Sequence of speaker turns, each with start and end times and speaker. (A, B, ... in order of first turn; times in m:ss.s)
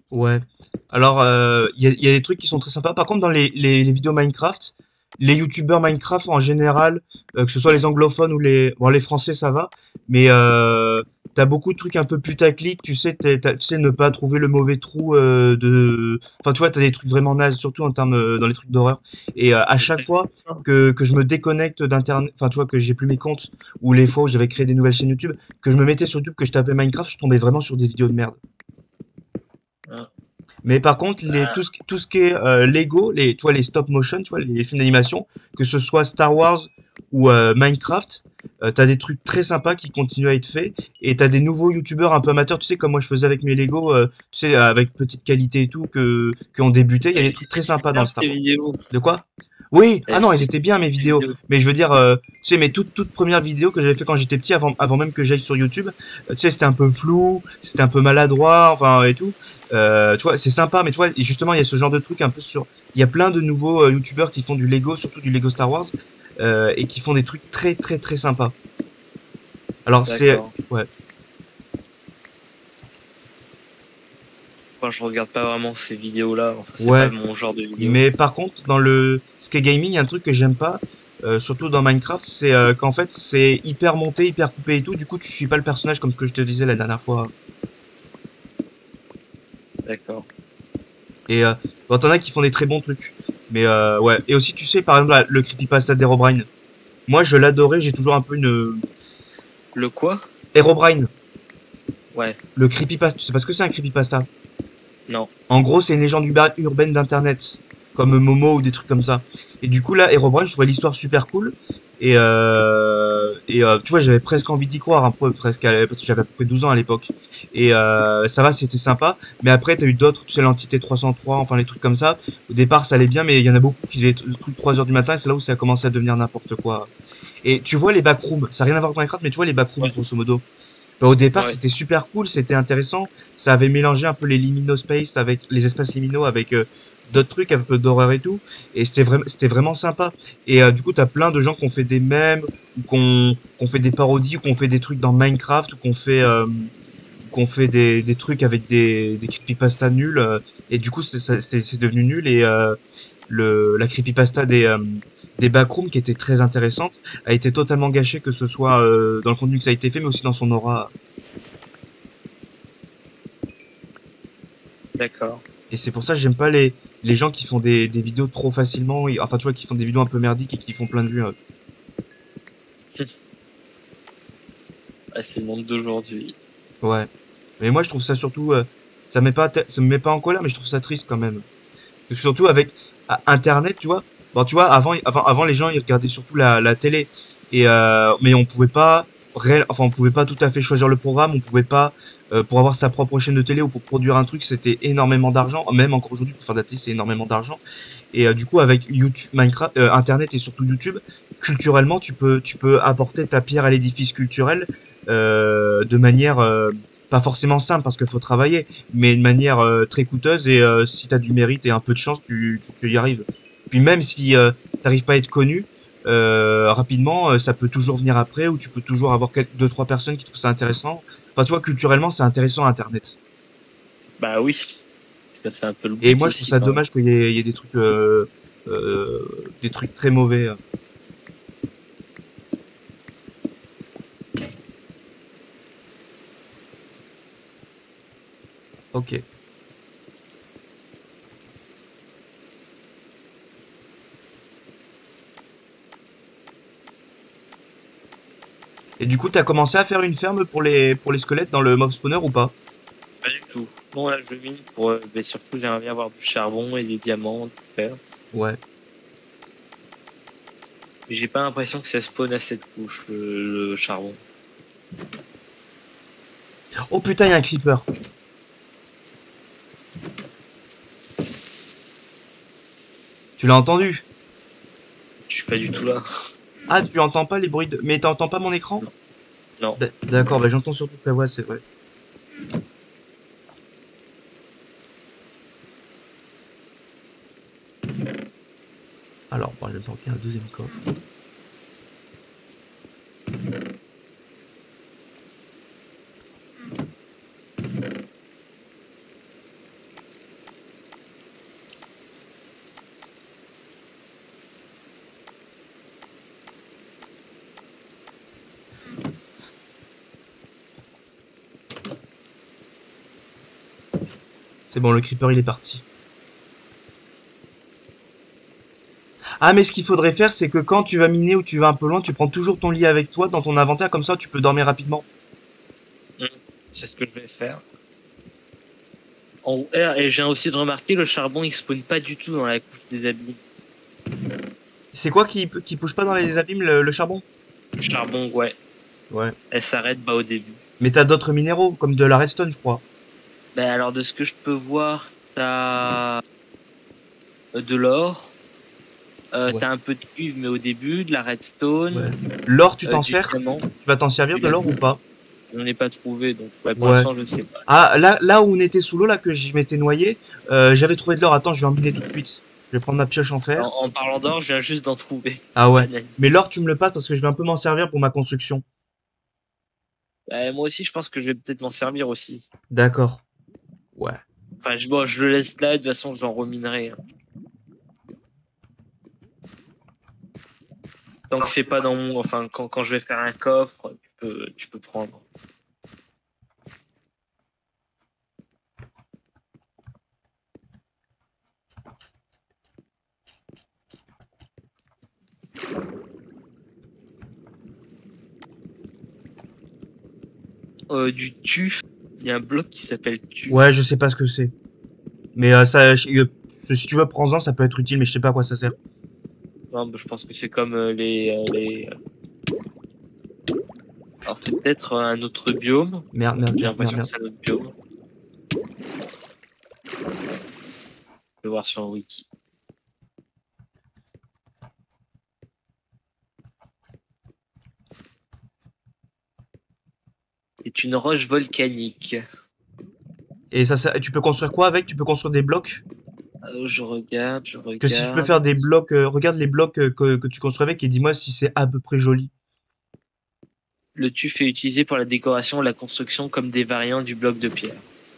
0:00.1-0:28.4 A
0:19.8-0:20.6 B
0:30.6-0:48.3 A
0:31.3-0:31.6 B
0:47.1-0:48.8 B
0:48.9-1:08.5 A
0:50.1-0:51.4 B
1:09.8-1:10.9 A
1:10.0-1:10.5 B
1:14.8-1:18.0 B
1:16.8-1:17.1 A
1:17.8-1:27.3 A
1:29.8-1:30.3 B
1:31.3-1:36.5 A
1:37.1-1:38.8 A
1:39.7-1:40.3 B
1:40.5-1:41.1 A
1:42.6-1:44.3 A
1:45.5-2:06.9 A
2:07.4-2:10.4 A
2:11.0-2:26.7 A
2:27.3-2:40.9 A
2:45.0-2:45.4 B
2:45.7-2:51.3 A
2:55.1-2:56.4 B
2:56.8-3:01.4 A
3:02.1-3:17.6 A
3:18.1-3:43.2 A
3:44.2-3:44.8 B
3:45.3-3:46.8 B
3:46.0-3:50.6 A
3:58.9-3:59.2 A
4:09.0-4:12.5 A
4:13.2-4:18.0 B
4:18.3-4:18.6 A
4:21.1-4:24.2 B
4:26.9-4:27.9 A
4:33.4-4:34.0 A
4:35.3-4:36.0 B
4:36.7-4:38.8 A
4:39.8-4:41.6 A
4:49.3-4:50.8 A
5:14.7-5:15.8 A
5:19.4-5:25.0 A
5:26.2-5:27.6 B
5:29.4-5:33.4 B
5:34.9-5:37.2 A
5:37.8-5:38.6 B
5:39.1-5:39.3 A
5:39.5-5:40.6 B
5:40.8-5:42.8 A
5:43.5-5:46.2 B
5:47.5-5:48.3 B
5:49.3-5:52.1 B
5:51.9-5:55.0 A
5:52.8-5:53.7 B
5:54.3-5:54.7 B
5:55.5-5:57.7 B
5:56.8-5:57.1 A
5:57.7-6:03.7 A
6:03.6-6:06.2 B
6:05.6-6:08.6 A
6:10.3-6:12.4 B
6:12.7-6:13.2 A
6:14.0-6:14.2 A
6:14.6-6:17.0 B
6:21.3-6:25.2 B
6:40.9-6:43.6 B
6:43.5-6:44.5 A
6:45.3-6:48.7 A
6:49.7-6:51.9 B
6:54.2-6:57.7 B
6:56.1-6:57.1 A
7:01.4-7:02.3 B
7:10.6-7:12.2 B
7:13.5-7:15.8 A
7:16.4-7:18.4 B
7:17.8-7:22.3 A
7:24.0-7:27.8 B